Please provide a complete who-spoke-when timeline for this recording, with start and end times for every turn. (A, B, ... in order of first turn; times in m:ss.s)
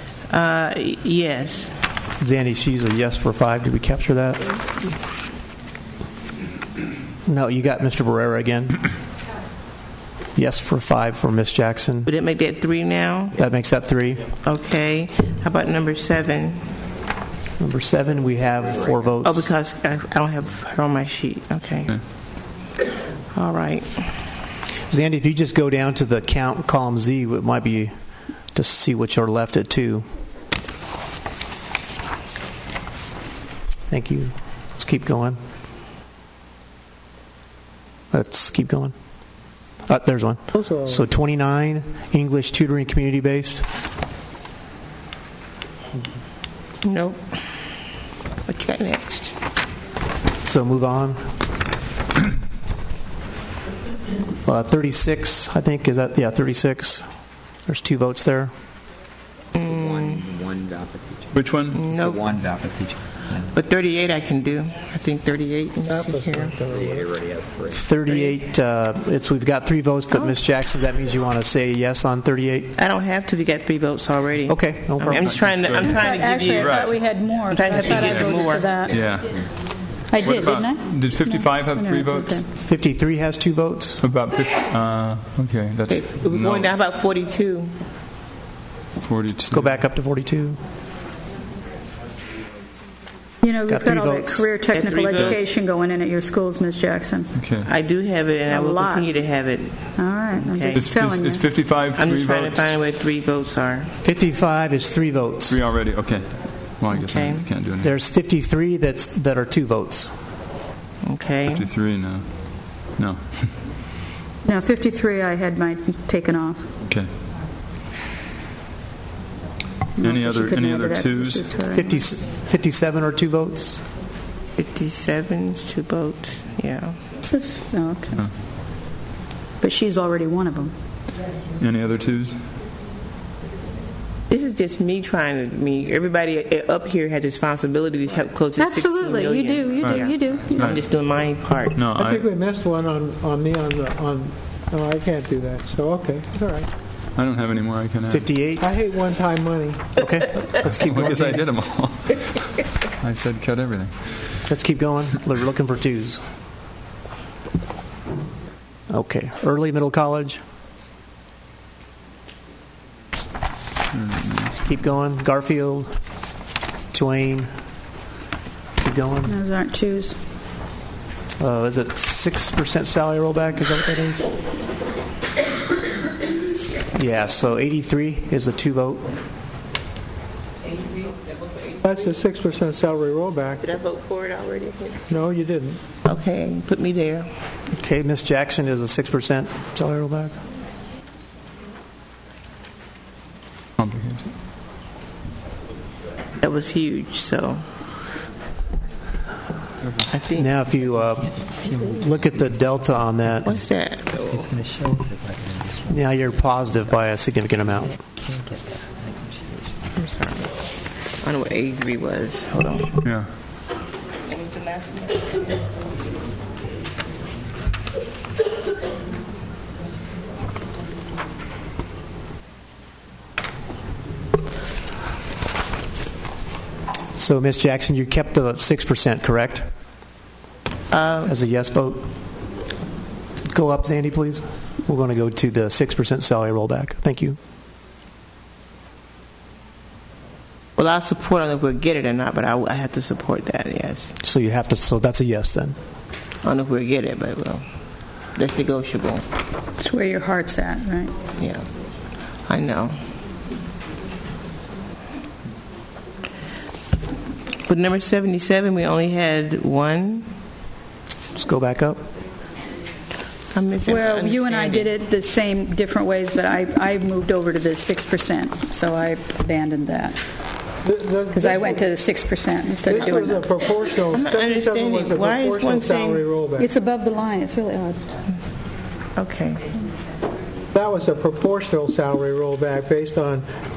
0:00.3-0:01.7 A
0:02.2-0:04.8 B
0:07.2-0:08.8 B
0:10.4-0:12.1 B
0:12.0-0:13.4 A
0:13.4-0:14.3 B
0:14.4-0:16.6 A
0:17.6-0:19.5 B
0:19.2-0:22.0 A
0:23.3-0:24.1 A
0:24.9-0:30.0 B
0:33.9-0:35.4 B
0:38.1-0:38.9 B
0:39.9-0:43.6 B
0:40.5-0:41.0 C
0:46.8-0:47.2 A
0:48.5-0:49.3 A
0:50.4-0:51.2 B
0:54.4-0:57.0 B
0:57.7-0:58.5 B
0:59.5-1:00.2 A
0:59.6-1:01.4 D
1:01.3-1:01.8 E
1:01.7-1:02.2 A
1:01.9-1:03.5 D
1:03.5-1:06.6 A
1:05.9-1:07.1 C
1:06.7-1:07.9 D
1:07.7-1:12.7 B
1:12.8-1:18.8 A
1:14.5-1:15.4 B
1:15.1-1:17.0 E
1:15.8-1:19.0 F
1:17.8-1:18.3 E
1:18.9-1:19.4 E
1:20.1-1:22.5 F
1:20.2-1:22.4 E
1:22.6-1:24.0 B
1:24.0-1:26.7 E
1:25.9-1:27.7 A
1:29.0-1:29.8 E
1:29.5-1:30.6 B
1:33.4-1:37.3 F
1:33.6-1:34.4 B
1:34.7-1:35.5 A
1:37.4-1:37.7 E
1:37.7-1:40.8 A
1:38.5-1:39.1 F
1:40.0-1:41.5 F
1:40.7-1:42.7 E
1:42.0-1:43.9 A
1:44.0-1:45.6 B
1:45.5-1:47.9 E
1:46.9-1:47.5 A
1:47.8-1:50.1 B
1:51.0-1:51.7 A
1:51.5-1:53.5 E
1:54.4-1:56.7 F
2:00.0-2:02.0 F
2:00.0-2:01.6 E
2:01.7-2:03.8 B
2:04.6-2:07.0 A
2:07.2-2:08.2 F
2:09.6-2:10.7 F
2:11.6-2:12.4 E
2:14.3-2:21.8 A
2:18.6-2:20.7 F
2:19.8-2:20.8 E
2:21.7-2:22.2 E
2:21.9-2:26.7 C
2:27.2-2:28.3 E
2:28.1-2:28.7 B
2:28.6-2:30.0 C
2:30.0-2:31.4 B
2:30.6-2:32.5 E
2:33.0-2:34.4 E
2:34.5-2:36.2 B
2:38.9-2:40.4 B
2:43.9-2:44.5 E
2:44.6-2:45.9 B
2:46.9-2:47.5 B
2:48.8-2:49.3 B
2:49.2-2:50.2 F
2:51.4-2:54.3 B
2:56.9-2:59.1 B
3:01.8-3:03.6 C
3:03.6-3:05.2 A
3:05.1-3:05.8 C
3:06.0-3:07.3 A
3:07.7-3:10.4 B
3:13.8-3:14.3 E
3:16.4-3:17.6 A
3:20.1-3:20.5 A
3:20.4-3:23.5 B
3:21.6-3:22.0 D
3:23.4-3:24.5 A
3:24.2-3:26.0 D
3:25.9-3:27.9 B
3:28.3-3:29.4 D
3:30.0-3:30.5 A
3:31.2-3:33.0 A
3:33.0-3:33.3 E
3:34.3-3:35.2 A
3:47.2-3:49.7 B
3:50.9-3:51.3 A
3:51.2-3:52.0 B
3:53.5-3:57.4 B
4:00.8-4:04.1 A
4:04.2-4:05.8 B
4:06.4-4:07.6 A
4:08.3-4:09.2 A
4:09.8-4:11.1 F
4:11.4-4:11.7 A
4:12.5-4:13.0 A
4:17.7-4:20.3 A
4:21.4-4:22.0 B
4:23.5-4:24.9 A
4:23.8-4:30.2 F
4:30.8-4:31.9 C
4:31.3-4:33.5 F
4:32.8-4:36.7 C
4:34.1-4:36.3 A
4:36.6-4:38.0 F
4:39.2-4:39.6 A
4:40.7-4:43.4 C